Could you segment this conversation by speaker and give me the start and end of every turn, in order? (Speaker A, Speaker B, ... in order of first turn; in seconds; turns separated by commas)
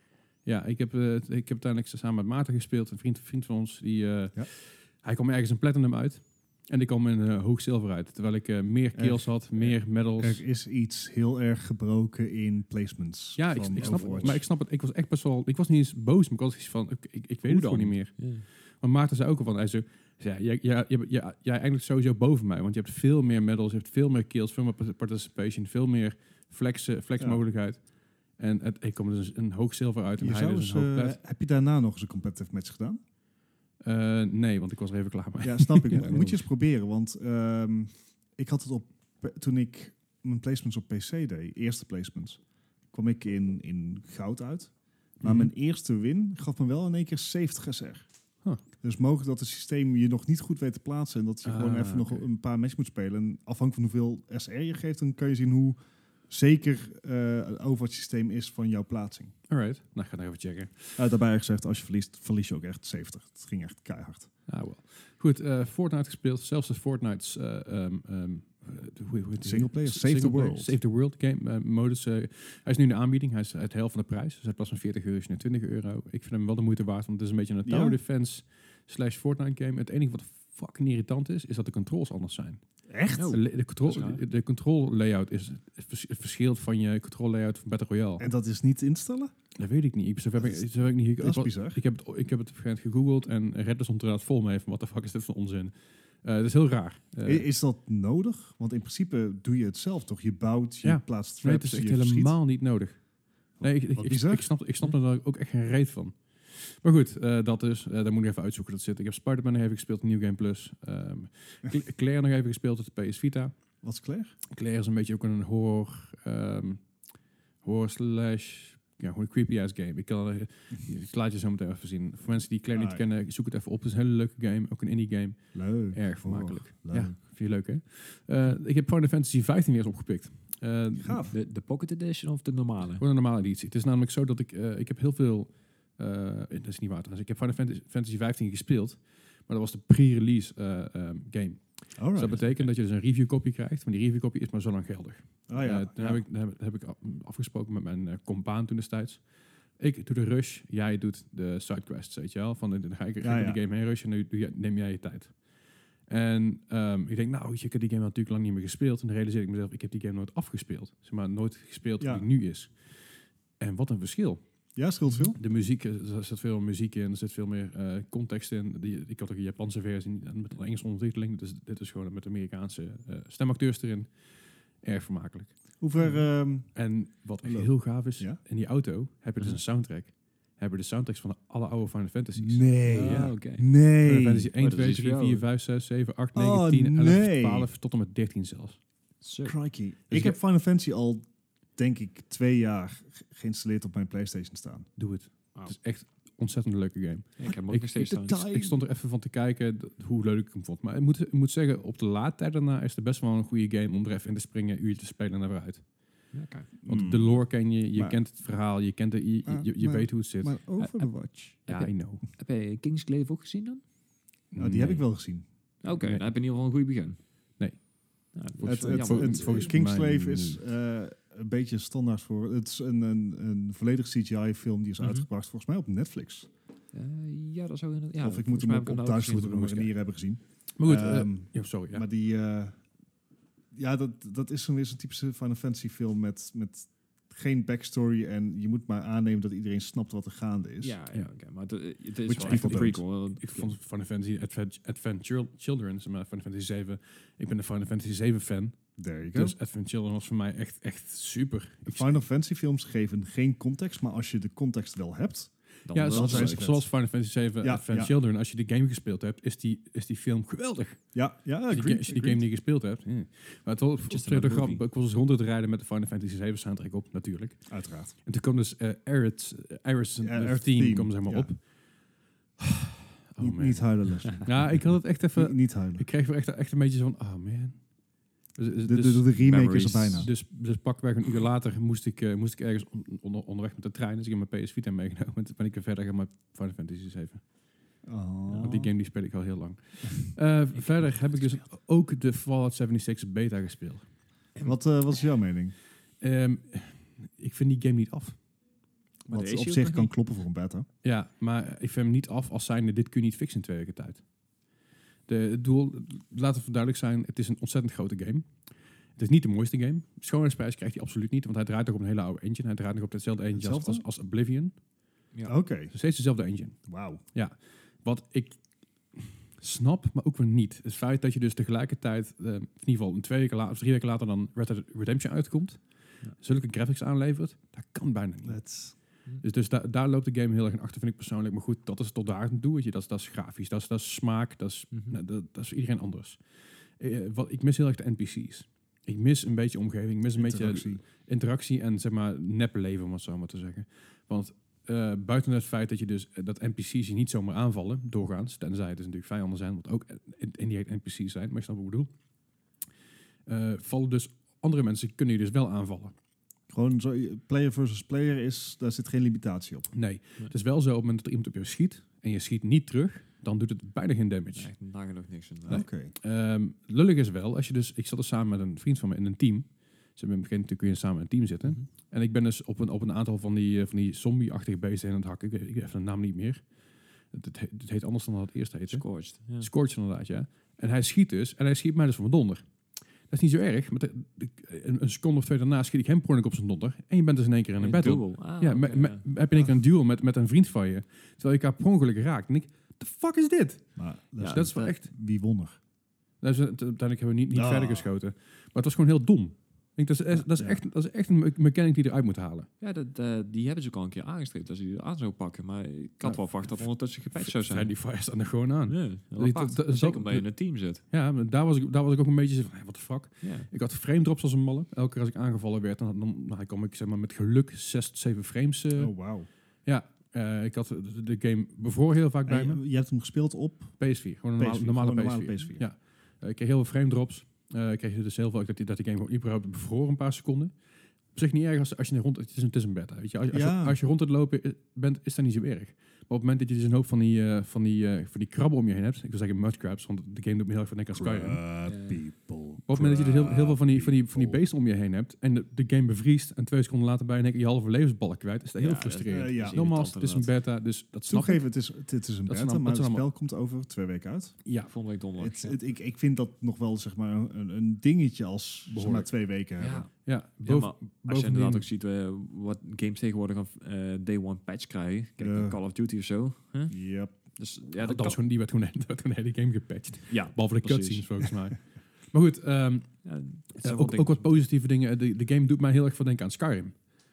Speaker A: 0.5-10.4, Speaker B: 8.9-14.4, Speaker A: 13.4-31.2, Speaker C: 13.8-14.4, Speaker C: 17.4-18.4, Speaker B: 30.2-33.0, Speaker A: 33.8-36.4, Speaker B: 35.4-42.4, Speaker C: 36.0-36.3, Speaker B: 42.9-48.1, Speaker A: 45.2-45.5, Speaker B: 48.8-59.3, Speaker A: 51.5-52.2, Speaker A: 59.5-61.0, Speaker B: 61.0-64.3, Speaker A: 64.5-82.6, Speaker B: 69.4-70.7, Speaker B: 77.7-78.0, Speaker B: 82.9-83.3, Speaker C: 83.1-84.2, Speaker A: 83.3-88.3, Speaker B: 88.2-89.3, Speaker A: 89.6-97.5, Speaker B: 90.4-90.6, Speaker B: 91.2-91.8, Speaker B: 97.2-102.4, Speaker A: 100.8-113.5, Speaker B: 103.6-104.5, Speaker B: 113.8-114.3, Speaker A: 114.5-116.8, Speaker A: 117.6-131.3, Speaker B: 122.7-123.0, Speaker B: 125.5-127.1, Speaker B: 131.0-131.3, Speaker C: 131.3-133.0, Speaker A: 133.0-149.2, Speaker B: 142.0-142.4, Speaker B: 145.5-146.2, Speaker A: 149.8-155.3, Speaker B: 153.2-153.6, Speaker A: 156.1-162.9, Speaker A: 163.6-164.4, Speaker B: 164.8-165.4, Speaker A: 165.3-174.1, Speaker A: 174.8-175.5, Speaker B: 175.8-176.7, Speaker C: 176.0-176.2, Speaker A: 176.8-183.4, Speaker B: 177.4-178.4, Speaker B: 182.4-184.5, Speaker C: 182.9-183.7, Speaker A: 184.0-188.8, Speaker C: 184.6-185.4, Speaker B: 186.3-187.7, Speaker C: 189.2-189.6, Speaker B: 189.4-194.9, Speaker A: 190.1-190.4, Speaker A: 195.0-205.8, Speaker C: 197.4-198.4, Speaker B: 198.2-198.8, Speaker C: 206.3-206.7, Speaker B: 206.9-207.4, Speaker A: 206.9-210.6, Speaker B: 209.5-211.6, Speaker C: 210.8-211.1, Speaker C: 211.7-213.8, Speaker A: 211.7-212.2, Speaker B: 214.5-215.4, Speaker A: 214.5-215.1, Speaker C: 215.8-217.2, Speaker A: 216.0-216.2, Speaker A: 217.6-220.6, Speaker C: 218.3-219.6, Speaker B: 218.7-226.5, Speaker C: 225.0-225.3, Speaker C: 226.9-229.9, Speaker B: 228.2-232.8, Speaker A: 230.8-232.1, Speaker B: 233.7-241.0, Speaker C: 240.8-243.7, Speaker A: 242.3-248.8, Speaker B: 242.3-243.0, Speaker B: 249.0-249.6, Speaker A: 249.3-252.2, Speaker B: 251.9-256.9, Speaker C: 255.9-256.7, Speaker A: 255.9-261.1, Speaker B: 257.6-258.1, Speaker B: 261.1-262.4, Speaker A: 261.7-267.7, Speaker C: 264.1-264.8, Speaker B: 267.7-268.1, Speaker A: 268.2-271.6, Speaker B: 270.2-271.5, Speaker A: 272.6-277.8, Speaker B: 273.4-276.1, Speaker A: 278.6-287.4, Speaker B: 278.8-280.3, Speaker C: 279.4-280.2, Speaker B: 288.1-288.9, Speaker A: 288.5-294.1, Speaker B: 294.6-295.8, Speaker A: 296.2-298.4, Speaker C: 299.3-300.1, Speaker B: 299.3-300.9, Speaker A: 301.0-304.2, Speaker A: 305.3-308.5, Speaker A: 309.2-314.7, Speaker B: 313.5-314.0, Speaker B: 315.5-315.9, Speaker A: 315.9-316.8, Speaker B: 316.9-317.2, Speaker A: 317.3-318.6, Speaker A: 319.1-325.8, Speaker A: 326.4-328.6, Speaker B: 328.4-328.9, Speaker A: 329.4-336.4, Speaker C: 334.9-335.2, Speaker A: 337.0-352.1, Speaker B: 340.3-341.0, Speaker A: 353.5-356.1, Speaker B: 356.7-359.9, Speaker A: 359.9-364.7, Speaker C: 364.6-365.8, Speaker B: 365.7-366.1, Speaker A: 365.7-376.6, Speaker A: 377.3-382.6, Speaker C: 378.9-379.7, Speaker A: 383.3-393.9, Speaker C: 387.8-389.2, Speaker B: 394.0-395.8, Speaker C: 394.4-394.9, Speaker A: 394.4-395.1, Speaker A: 396.4-402.7, Speaker B: 397.5-398.1, Speaker C: 402.8-407.9, Speaker A: 406.2-419.1, Speaker C: 408.9-411.0, Speaker C: 413.4-413.7, Speaker B: 418.9-419.5, Speaker A: 419.9-422.8, Speaker B: 422.5-424.0, Speaker A: 424.0-430.7, Speaker B: 424.6-425.8, Speaker A: 431.4-441.6, Speaker B: 433.5-434.0, Speaker B: 441.1-444.6, Speaker C: 441.9-442.2, Speaker A: 442.9-451.7, Speaker C: 448.8-450.5, Speaker B: 449.3-449.8, Speaker B: 451.3-454.6, Speaker A: 452.5-453.3, Speaker A: 454.6-454.9, Speaker C: 454.9-455.8, Speaker B: 455.4-460.1, Speaker A: 458.9-459.3, Speaker C: 459.8-460.1, Speaker A: 460.2-461.8, Speaker C: 460.6-466.9, Speaker B: 465.4-465.8, Speaker B: 466.9-467.3, Speaker C: 467.6-468.4, Speaker A: 468.0-473.1, Speaker C: 470.3-471.3, Speaker C: 473.2-474.5, Speaker A: 473.8-476.9